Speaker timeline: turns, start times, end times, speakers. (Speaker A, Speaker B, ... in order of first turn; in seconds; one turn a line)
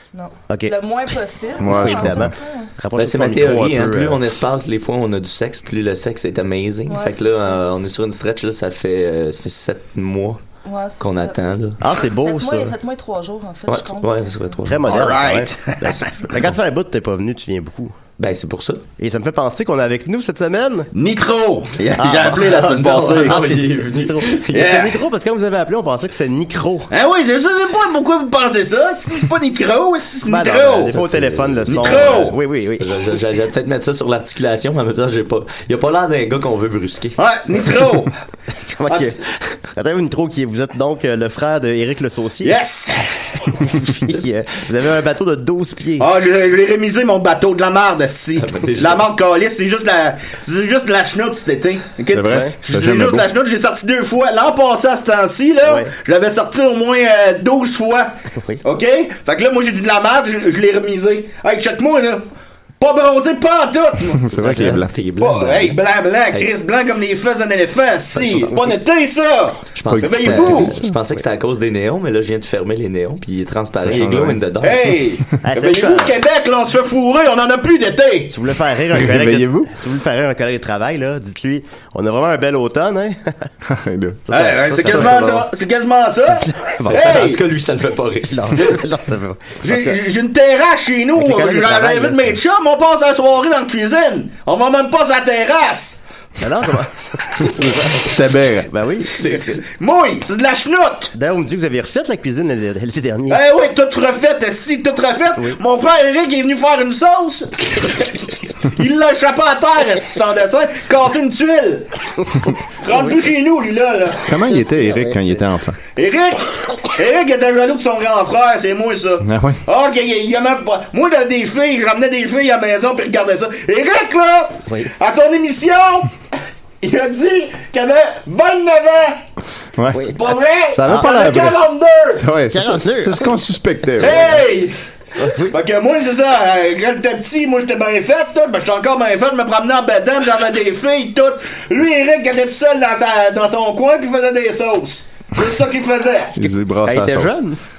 Speaker A: 0.1-2.7
Speaker B: 0.5-0.8
Speaker C: 1.6-2.3
Speaker B: 1.6-4.3
Speaker D: 3.0-10.4
Speaker A: 6.9-7.6
Speaker A: 10.7-11.4
Speaker D: 11.0-11.8
Speaker B: 11.8-12.7
Speaker A: 12.1-14.6
Speaker D: 13.7-15.2
Speaker B: 14.7-18.0
Speaker E: 14.9-16.1
Speaker D: 18.2-18.8
Speaker B: 19.0-20.9
Speaker E: 20.9-23.5
Speaker B: 22.0-26.9
Speaker D: 22.3-24.8
Speaker E: 24.5-24.9
Speaker E: 26.9-31.1
Speaker B: 30.2-33.0
Speaker D: 30.9-32.0
Speaker E: 31.7-32.4
Speaker D: 32.8-37.2
Speaker E: 37.2-38.1
Speaker B: 38.7-39.2
Speaker B: 39.8-42.6
Speaker E: 42.4-43.1
Speaker B: 43.6-46.1
Speaker E: 46.0-58.1
Speaker D: 48.4-49.1
Speaker C: 52.1-53.3
Speaker B: 55.6-55.9
Speaker E: 58.6-62.2
Speaker E: 62.8-64.3
Speaker C: 64.2-64.9
Speaker D: 64.4-65.8
Speaker E: 65.2-70.8
Speaker B: 68.2-68.7
Speaker D: 69.8-74.9
Speaker C: 69.9-70.9
Speaker C: 73.8-74.4
Speaker E: 74.6-78.3
Speaker B: 75.4-76.2
Speaker B: 78.3-83.5
Speaker C: 78.9-79.7
Speaker C: 83.7-84.3
Speaker B: 84.3-85.5
Speaker E: 84.3-87.4
Speaker C: 84.8-85.4
Speaker B: 86.3-87.4
Speaker D: 86.9-88.8
Speaker B: 88.3-90.0
Speaker E: 89.6-96.0
Speaker B: 91.2-92.4
Speaker B: 96.4-99.6
Speaker C: 98.0-98.7
Speaker D: 99.1-99.6
Speaker E: 99.6-101.1
Speaker B: 101.2-103.4
Speaker E: 103.3-111.9
Speaker E: 112.4-114.3
Speaker B: 112.9-113.1
Speaker C: 114.3-115.8
Speaker B: 114.7-115.4
Speaker E: 115.9-126.1
Speaker C: 119.2-119.6
Speaker E: 126.8-129.2
Speaker C: 129.8-130.2
Speaker E: 130.1-132.2
Speaker C: 130.7-134.3
Speaker B: 132.5-133.4
Speaker E: 134.0-134.8
Speaker B: 134.0-134.4
Speaker B: 135.2-135.6
Speaker E: 135.4-146.4
Speaker C: 146.3-147.4
Speaker B: 146.9-147.6